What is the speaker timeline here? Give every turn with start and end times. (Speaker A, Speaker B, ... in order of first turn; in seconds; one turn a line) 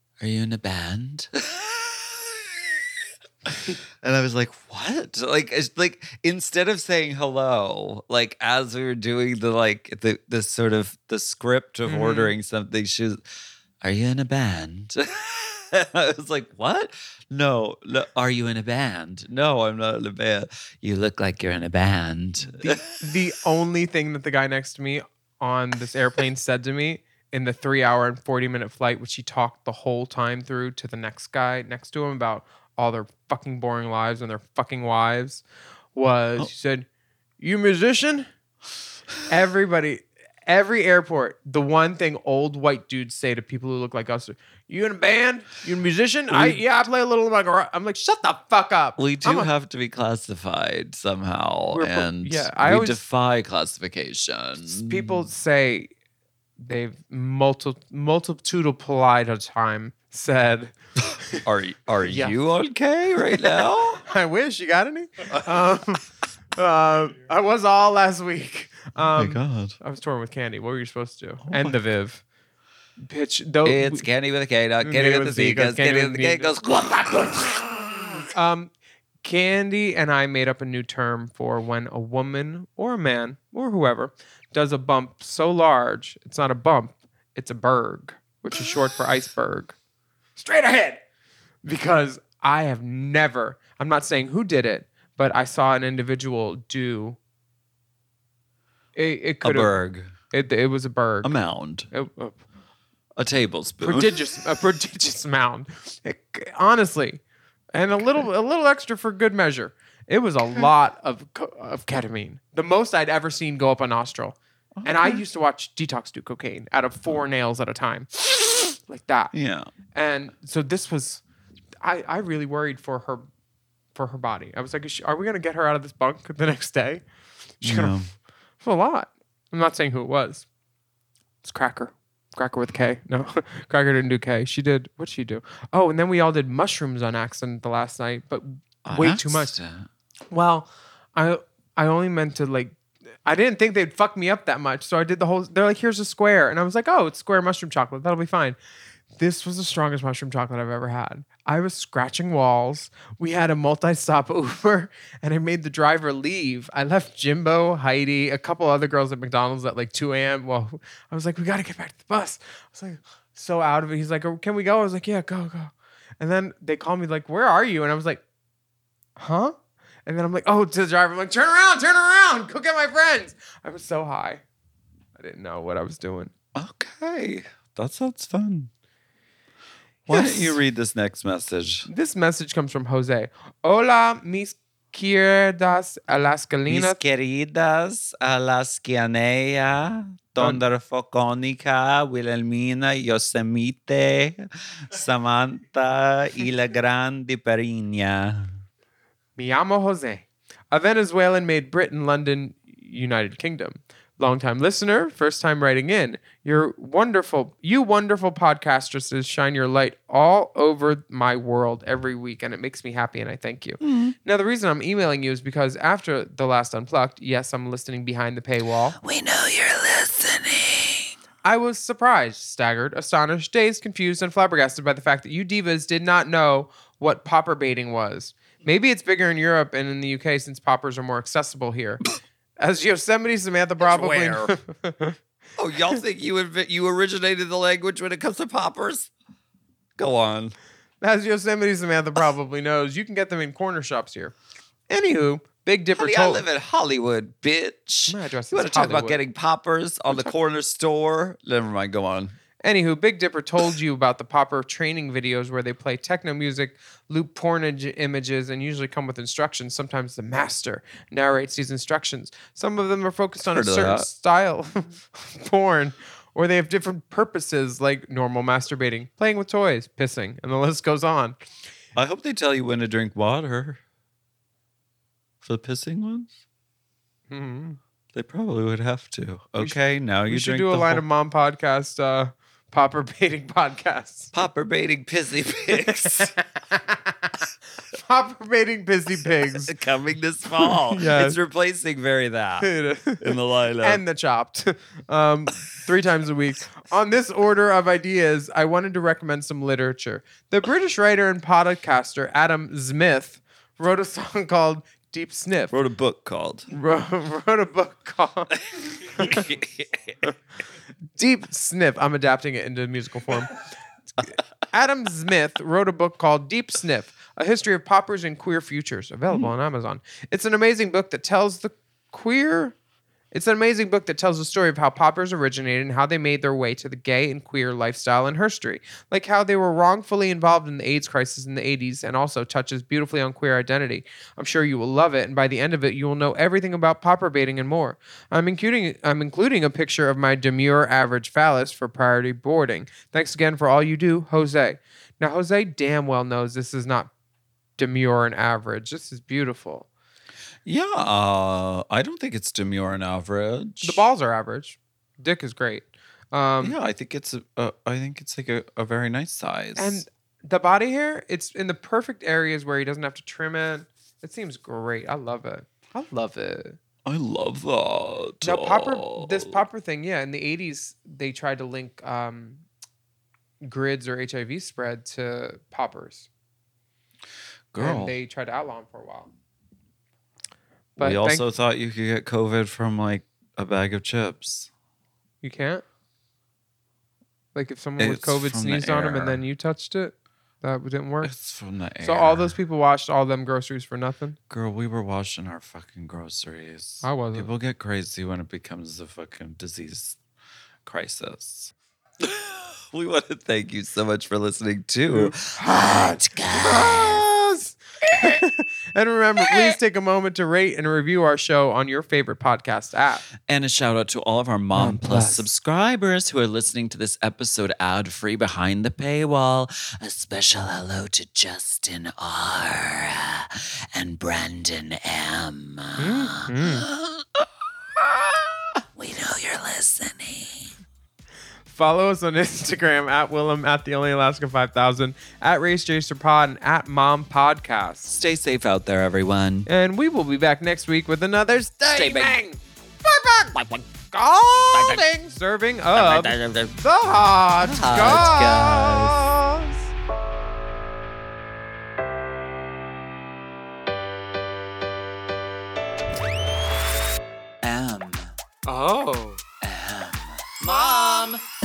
Speaker A: 0.2-2.6
Speaker A: 3.5-13.2
Speaker B: 11.8-12.3
Speaker A: 13.8-22.8
Speaker B: 22.5-35.4
Speaker B: 35.9-36.9
Speaker B: 37.4-38.3
Speaker B: 39.3-49.5
Speaker A: 46.3-46.6
Speaker A: 49.0-55.2
Speaker B: 51.7-53.0
Speaker B: 54.7-55.9
Speaker B: 56.6-60.7
Speaker A: 61.4-64.0
Speaker B: 62.1-62.3
Speaker B: 64.0-72.2
Speaker A: 69.1-69.8
Speaker A: 71.4-71.7
Speaker B: 73.0-74.0
Speaker A: 73.6-78.2
Speaker B: 74.8-76.5
Speaker B: 78.2-78.7
Speaker B: 79.2-89.7
Speaker B: 90.4-91.0
Speaker B: 91.6-97.2
Speaker B: 98.9-99.8
Speaker A: 99.4-100.1
Speaker B: 100.3-101.3
Speaker A: 101.2-101.9
Speaker B: 101.9-102.4
Speaker A: 103.2-104.2
Speaker B: 103.8-107.2
Speaker B: 107.7-119.3
Speaker A: 110.4-110.7
Speaker A: 114.7-115.2
Speaker A: 119.3-119.7
Speaker B: 119.9-121.2
Speaker B: 121.8-123.3
Speaker B: 123.9-127.0
Speaker B: 127.6-128.0
Speaker A: 127.6-128.1
Speaker B: 128.6-130.4
Speaker B: 131.4-139.5
Speaker A: 138.8-139.9
Speaker B: 140.3-148.6
Speaker B: 149.2-168.2
Speaker B: 169.2-169.5
Speaker B: 170.1-174.4
Speaker B: 175.2-176.3
Speaker A: 176.5-178.7
Speaker A: 180.1-181.9
Speaker B: 180.1-180.6
Speaker B: 181.9-187.0
Speaker A: 186.7-198.5
Speaker B: 190.4-190.6
Speaker B: 199.4-219.0
Speaker A: 213.8-214.1
Speaker A: 219.0-221.1
Speaker B: 221.4-232.0
Speaker B: 232.6-235.2
Speaker A: 233.8-234.5
Speaker A: 235.6-239.1
Speaker A: 240.0-240.5
Speaker B: 241.0-244.3
Speaker B: 244.9-246.4
Speaker A: 245.9-252.3
Speaker B: 248.1-249.2
Speaker B: 252.6-271.4
Speaker A: 263.4-264.1
Speaker A: 271.9-273.8
Speaker A: 275.4-276.3
Speaker B: 277.3-277.8
Speaker A: 278.1-281.0
Speaker B: 279.6-284.3
Speaker A: 284.3-286.3
Speaker B: 285.8-287.3
Speaker B: 287.9-289.7
Speaker A: 289.4-294.0
Speaker B: 290.6-291.4
Speaker B: 292.6-293.3
Speaker B: 293.8-305.8
Speaker A: 305.7-306.7
Speaker B: 306.7-308.6
Speaker B: 309.1-309.5
Speaker A: 309.2-310.1
Speaker B: 311.1-313.6
Speaker B: 314.2-322.7
Speaker B: 323.3-347.1
Speaker B: 347.8-349.9
Speaker A: 350.6-354.1
Speaker B: 353.8-356.7
Speaker A: 356.6-360.0
Speaker B: 359.8-366.8
Speaker A: 367.0-369.6
Speaker B: 368.4-372.6
Speaker B: 373.6-376.3
Speaker A: 377.7-378.2
Speaker B: 377.8-379.3
Speaker B: 381.0-381.4
Speaker A: 381.0-384.7
Speaker B: 385.4-385.8
Speaker B: 387.5-391.3
Speaker A: 388.0-389.4
Speaker A: 391.2-392.6
Speaker B: 392.0-394.4
Speaker A: 394.5-400.2
Speaker B: 397.0-397.5
Speaker A: 400.8-407.2
Speaker B: 405.1-413.2
Speaker A: 409.4-409.7
Speaker A: 413.4-430.7
Speaker B: 414.7-415.5
Speaker B: 426.0-426.9
Speaker B: 431.7-438.2
Speaker A: 438.1-439.7
Speaker B: 439.6-449.9
Speaker A: 441.9-442.4
Speaker A: 443.5-443.9
Speaker A: 444.7-445.0
Speaker A: 445.9-446.8
Speaker A: 447.6-449.3
Speaker A: 457.6-458.3
Speaker B: 458.6-459.4
Speaker A: 459.6-461.4